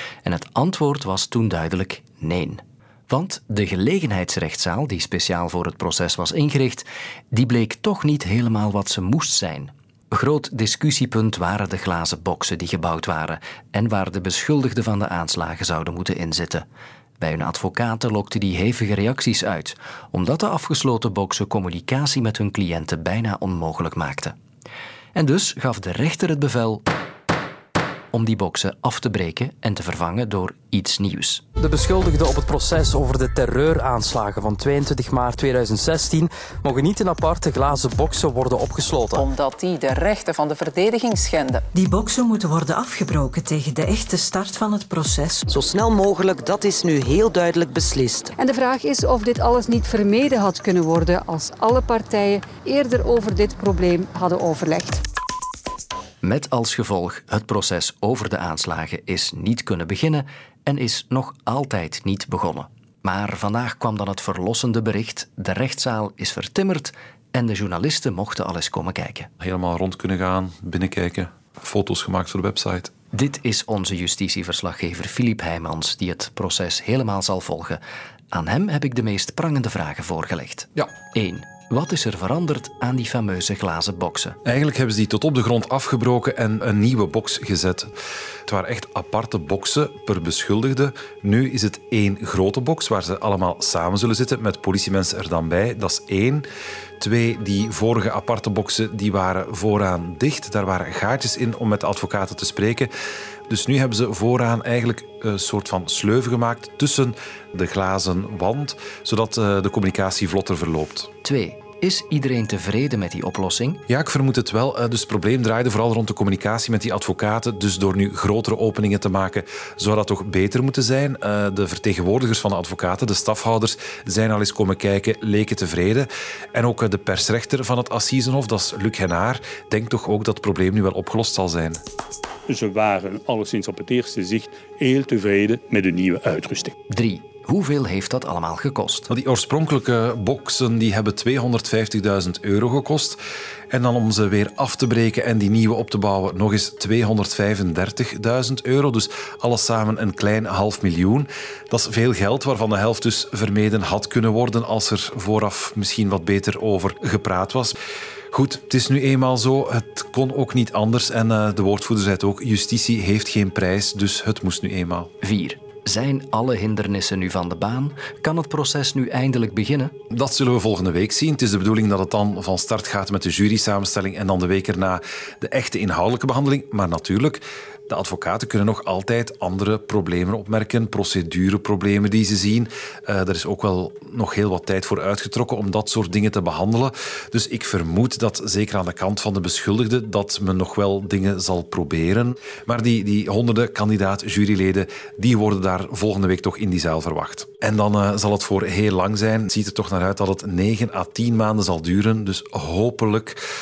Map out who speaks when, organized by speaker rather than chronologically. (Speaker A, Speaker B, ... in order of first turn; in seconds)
Speaker A: 0.2-16.7, 17.2-24.4, 25.1-26.8, 28.1-31.4, 56.2-69.3, 73.1-77.8, 78.3-84.4, 111.2-113.8, 136.9-139.1, 165.2-169.9
Speaker B: 31.6-39.2
Speaker C: 39.2-41.7
Speaker D: 41.8-45.4
Speaker E: 45.4-48.3
Speaker F: 48.4-55.0
Speaker G: 69.4-72.9, 84.5-87.9, 88.5-96.4, 97.0-102.9, 103.5-111.1, 113.9-131.8, 139.1-143.2, 143.7-157.8, 158.3-165.1, 170.1-203.4
Speaker H: 132.5-136.7